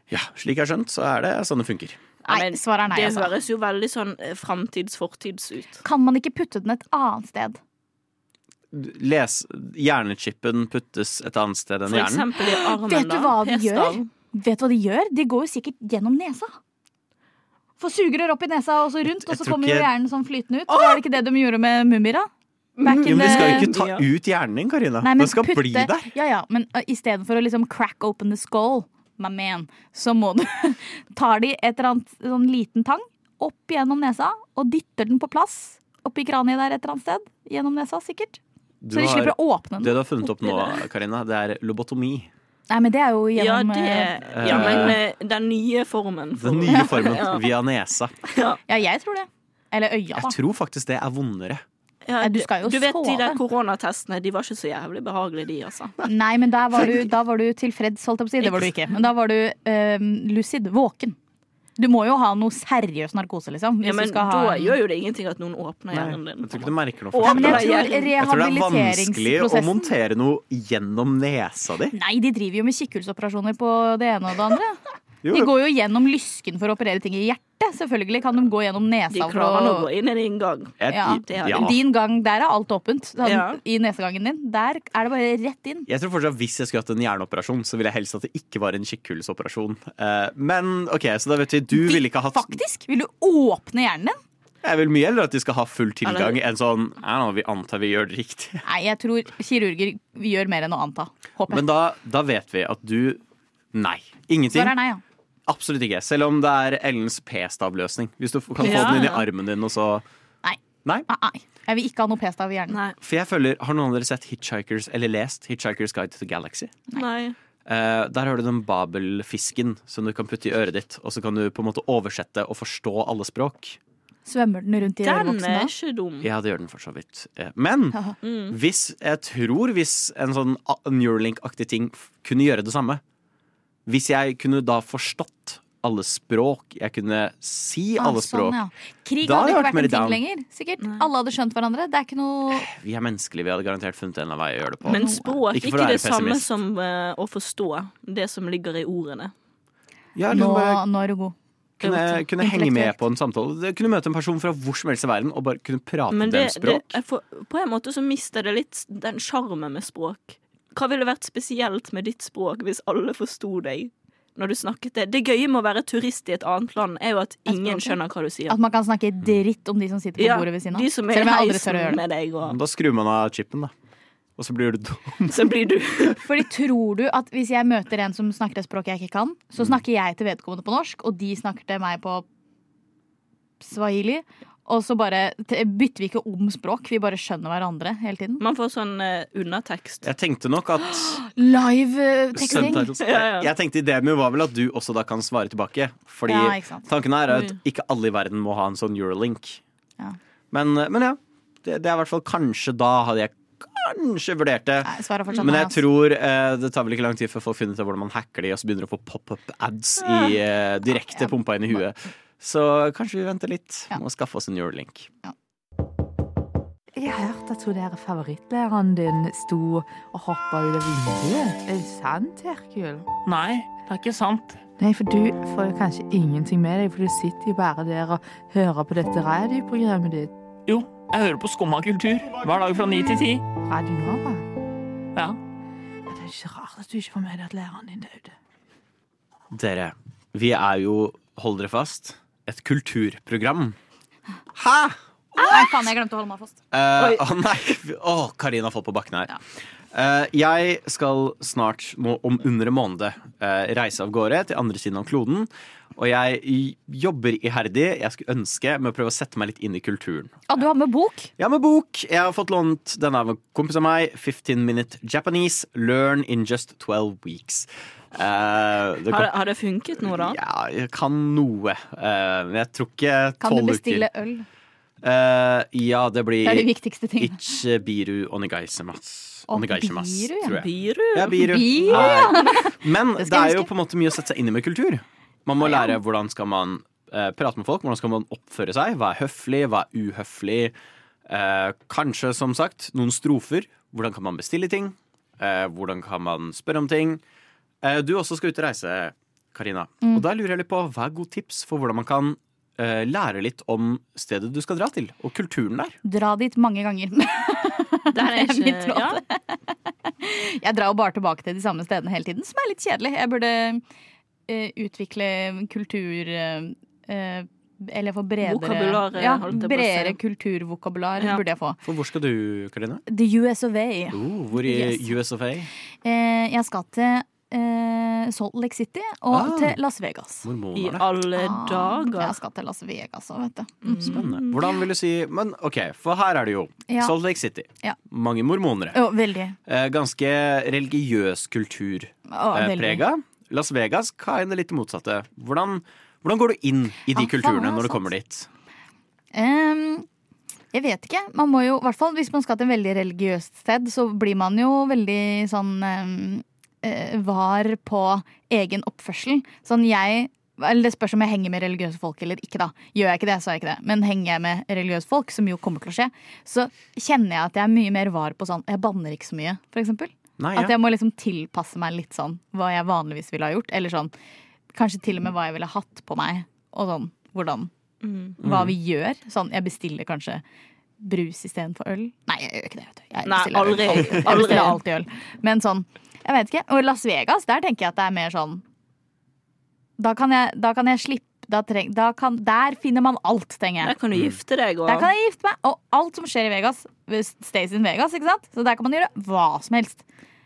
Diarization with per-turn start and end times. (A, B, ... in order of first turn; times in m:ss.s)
0:00.1-0:02.0 A
0:02.3-0:05.8 B
0:02.3-0:03.3 C
0:05.8-0:07.6 C
0:08.7-0:12.3 A
0:11.9-0:14.1 B
0:12.4-0:16.5 C
0:17.8-0:22.3 C
0:19.2-0:19.9 A
0:20.7-0:21.0 B
0:22.8-0:24.0 B
0:22.8-0:23.7 C
0:23.1-0:26.1 A
0:25.0-0:38.4 C
0:38.8-0:42.3 A
0:38.9-0:40.7 C
0:42.7-0:45.0 C
0:43.4-0:47.5 B
0:44.3-0:45.0 A
0:46.4-0:48.2 A
0:48.3-0:48.6 B
0:48.7-0:50.4 C
0:50.2-0:51.6 A
0:52.1-0:56.0 B
0:52.2-0:53.4 C
0:56.0-1:01.2 C
1:01.8-1:04.8 C
1:03.8-1:08.2 B
1:05.9-1:12.0 A
1:07.2-1:09.9 C
1:11.9-1:14.8 C
1:15.2-1:15.5 A
1:15.3-1:19.9 C
1:19.1-1:21.7 B
1:20.8-1:21.7 A
1:20.9-1:25.9 C
1:23.2-1:23.6 B
1:25.9-1:32.6 A
1:31.7-1:34.2 C
1:34.6-1:38.6 A
1:36.0-1:36.4 B
1:38.6-1:41.6 C
1:41.5-1:43.2 A
1:43.7-1:44.8 A
1:44.5-1:45.0 C
1:45.5-1:50.0 A
1:48.6-1:49.2 B
1:50.4-1:52.8 C
1:52.7-1:53.0 B
1:53.0-1:56.8 A
1:57.0-1:57.4 B
1:57.6-2:03.8 A
2:04.3-2:05.7 C
2:05.0-2:06.3 B
2:06.2-2:08.0 A
2:08.2-2:08.6 B
2:08.5-2:13.0 A
2:13.9-2:18.6 A
2:18.0-2:22.7 C
2:19.2-2:20.2 A
2:22.5-2:26.5 A
2:24.9-2:25.4 C
2:24.9-2:29.3 B
2:30.2-2:30.8 A
2:30.3-2:33.0 C
2:31.8-2:37.0 A
2:36.1-2:48.6 B
2:47.5-2:48.0 C
2:48.5-2:52.0 C
2:50.2-2:52.6 B
2:52.4-2:53.7 A
2:54.4-2:55.4 A
2:55.3-2:56.2 B
2:56.2-3:02.2 C
3:03.6-3:08.4 C
3:08.4-3:10.1 B
3:10.0-3:11.2 A
3:10.8-3:12.9 C
3:12.4-3:19.6 A
3:13.0-3:13.5 B
3:16.3-3:16.8 C
3:20.5-3:35.1 A
3:24.8-3:25.8 C
3:31.1-3:31.4 C
3:37.0-3:43.1 D
3:43.2-3:44.6 E
3:44.8-3:50.3 D
3:50.7-3:53.5 E
3:53.6-3:54.4 D
3:56.1-3:58.3 D
3:59.5-4:03.8 A
4:04.5-4:05.9 A
4:05.4-4:06.6 C
4:06.7-4:09.4 A
4:09.9-4:20.4 A
4:20.5-4:21.3 C
4:21.4-4:29.3 A
4:29.1-4:30.4 B
4:30.0-4:34.1 A
4:33.4-4:34.5 C
4:35.0-4:50.8 A
4:36.4-4:37.6 C
4:39.5-4:40.6 C
4:40.6-4:42.5 B
4:41.4-4:43.7 C
4:45.6-4:46.0 C
4:51.3-4:57.2 A
4:57.8-5:06.0 A
5:06.0-5:09.6 C
5:08.1-5:09.2 B
5:10.2-5:13.8 C
5:14.5-5:21.8 C
5:18.4-5:20.2 B
5:21.8-5:23.0 A
5:23.1-5:25.1 C
5:24.1-5:25.7 A
5:26.0-5:30.5 C
5:29.3-5:29.8 A
5:30.4-5:31.1 A
5:30.8-5:32.4 B
5:31.4-5:34.4 C
5:33.8-5:34.6 B
5:34.0-5:39.0 A
5:36.9-5:37.2 C
5:38.9-5:39.6 C
5:39.7-5:48.5 A
5:42.3-5:43.0 C
5:47.1-5:48.1 C
5:49.3-5:50.1 C
5:50.7-6:14.1 C
6:10.4-6:10.8 A
6:14.7-6:17.7 C
6:18.0-6:18.4 B
6:18.4-6:20.4 C
6:18.4-6:18.8 A
6:21.0-6:28.6 C
6:23.3-6:24.8 B
6:24.2-6:24.7 A
6:30.0-6:33.9 C
6:33.8-6:35.1 B
6:34.1-6:34.4 A
6:34.9-6:40.0 C